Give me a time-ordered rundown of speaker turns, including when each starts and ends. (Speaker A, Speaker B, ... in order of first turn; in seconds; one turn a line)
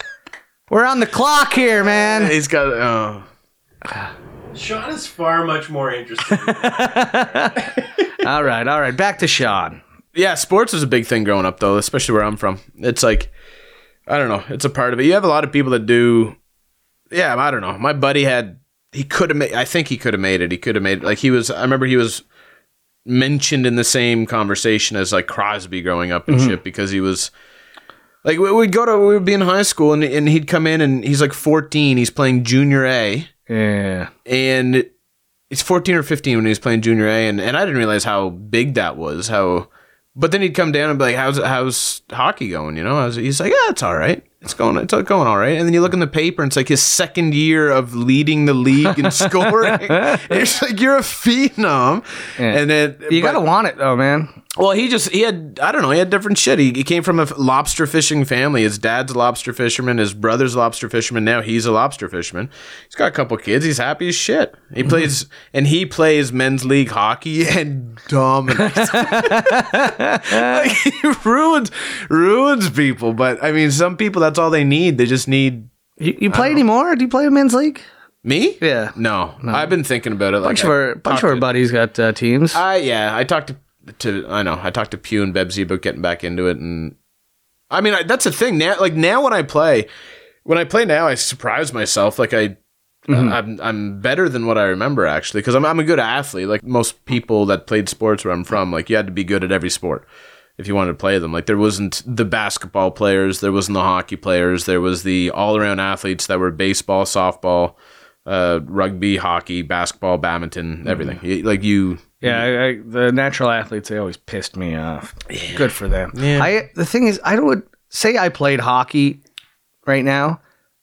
Speaker A: 0.7-2.3
Speaker B: 1.9-3.2
Speaker C: 4.5-7.7
Speaker A: 6.4-7.6
Speaker A: 8.2-9.8
Speaker B: 10.1-13.3
Speaker B: 14.1-16.4
Speaker B: 17.1-22.2
Speaker B: 23.0-27.3
Speaker A: 26.3-26.5
Speaker B: 28.2-33.3
Speaker A: 33.5-34.1
Speaker B: 34.2-34.9
Speaker B: 35.5-53.4
Speaker A: 52.4-54.3
Speaker B: 54.5-75.7
Speaker A: 68.6-70.6
Speaker A: 76.0-77.8
Speaker B: 76.3-76.6
Speaker B: 78.2-81.5
Speaker A: 78.6-79.7
Speaker A: 80.4-82.6
Speaker B: 82.5-86.9
Speaker B: 87.7-89.9
Speaker B: 90.4-92.5
Speaker A: 93.1-93.3
Speaker B: 93.1-100.0
Speaker B: 100.6-112.5
Speaker A: 112.2-119.2
Speaker B: 115.3-116.5
Speaker A: 119.8-120.4